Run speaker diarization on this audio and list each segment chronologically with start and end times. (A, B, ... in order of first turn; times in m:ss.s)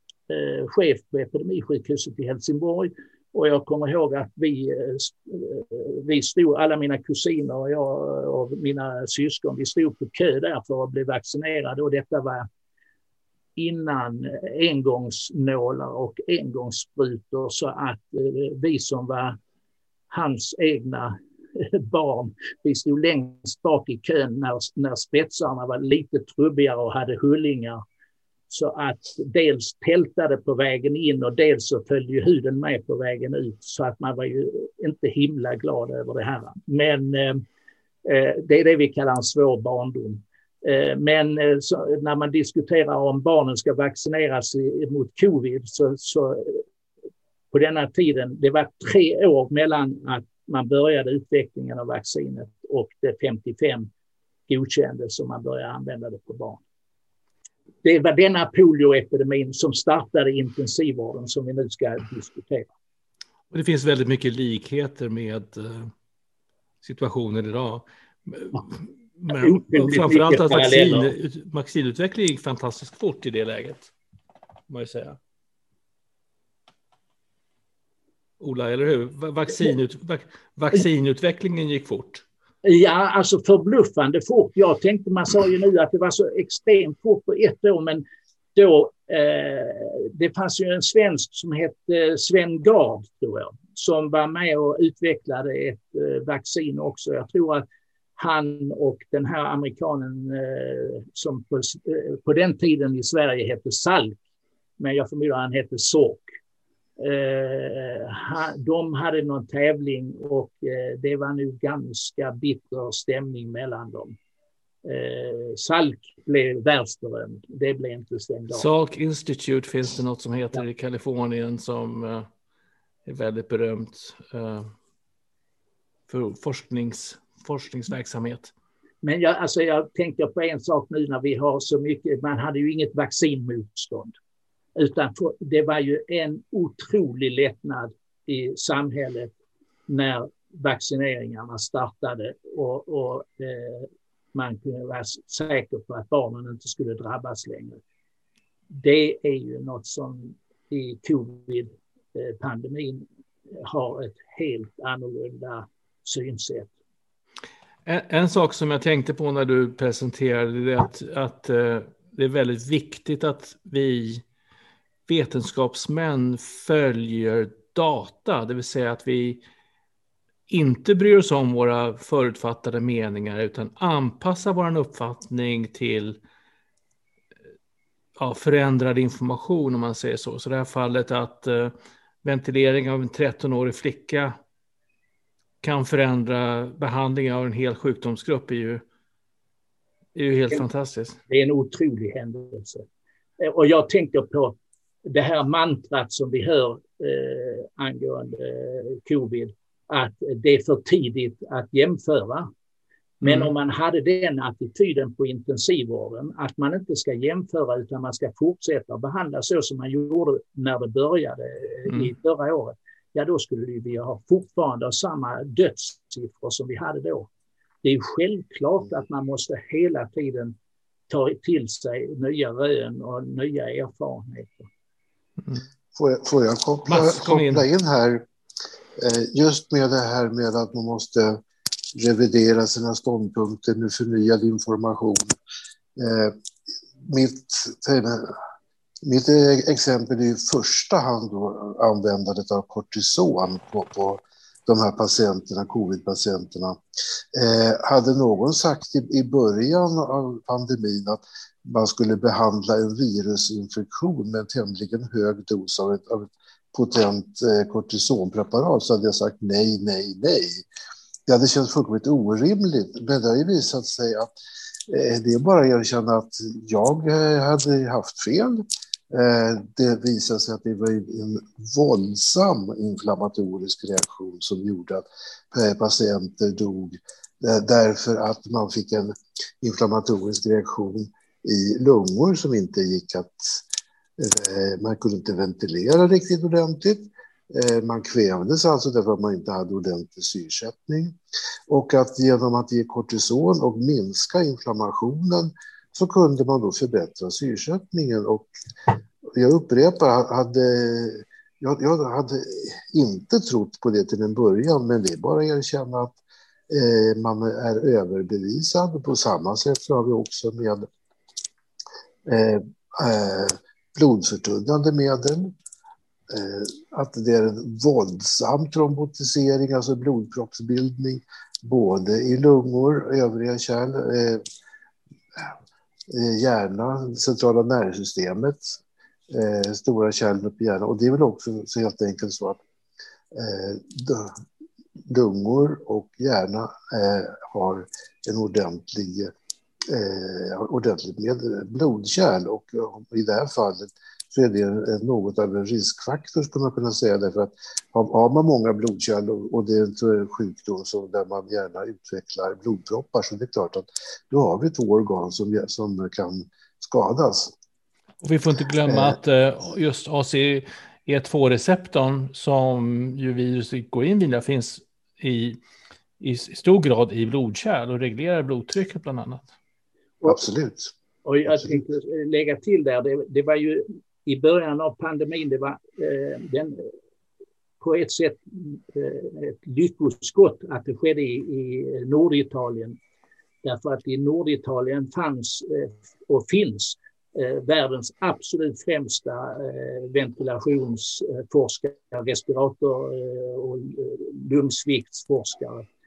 0:00.3-0:12.5 A
0:13.6-0:19.4 A
0:20.1-0:27.8 A
0:28.5-0:37.4 A
0:38.0-0:46.6 A
0:47.5-0:53.9 A
0:54.5-0:56.6 A
0:57.8-1:02.7 A
1:03.5-1:05.9 B
1:06.8-1:13.9 B
1:09.3-1:11.1 A
1:14.7-1:15.2 B
1:18.4-1:22.2 B
1:22.6-1:37.6 A
1:38.2-1:44.2 A
1:44.8-1:46.2 A
1:47.0-1:54.2 A
1:54.8-1:58.7 A
1:58.5-2:02.3 B
2:03.1-2:04.7 B
2:06.1-2:08.5 B
2:09.0-2:14.2 A
2:14.8-2:19.3 A
2:19.9-2:27.8 A
2:28.7-2:33.1 A
2:33.6-2:36.7 A
2:37.9-2:44.2 B
2:45.1-2:49.4 B
2:50.5-2:56.2 B
2:58.2-3:04.4 B
3:05.6-3:08.8 B
3:10.2-3:11.2 B
3:11.3-3:12.8 A
3:13.4-3:22.5 A
3:23.2-3:23.5 B
3:23.2-3:37.3 A
3:37.8-3:40.6 A
3:41.1-3:44.7 A
3:46.0-3:48.3 C
3:46.9-3:47.7 B
3:49.0-3:51.4 C
3:51.9-3:55.3 C
3:56.0-3:56.4 C
3:57.0-3:58.4 C
3:59.0-4:06.8 C
4:07.3-4:20.6 C
4:21.3-4:24.3 C
4:24.9-4:43.6 C
4:44.2-4:51.2 C
4:51.7-4:58.5 C
4:59.3-5:06.2 C
5:06.7-5:10.9 C
5:12.3-5:15.6 C
5:16.3-5:24.4 C
5:26.1-5:32.6 C
5:33.3-5:34.4 C
5:35.1-5:39.3 C
5:39.9-5:57.5 C
5:58.2-6:05.6 B
6:06.2-6:09.5 B
6:10.2-6:10.9 C
6:11.2-6:16.8 A
6:11.5-6:11.8 C
6:17.8-6:23.0 A
6:23.6-6:35.9 A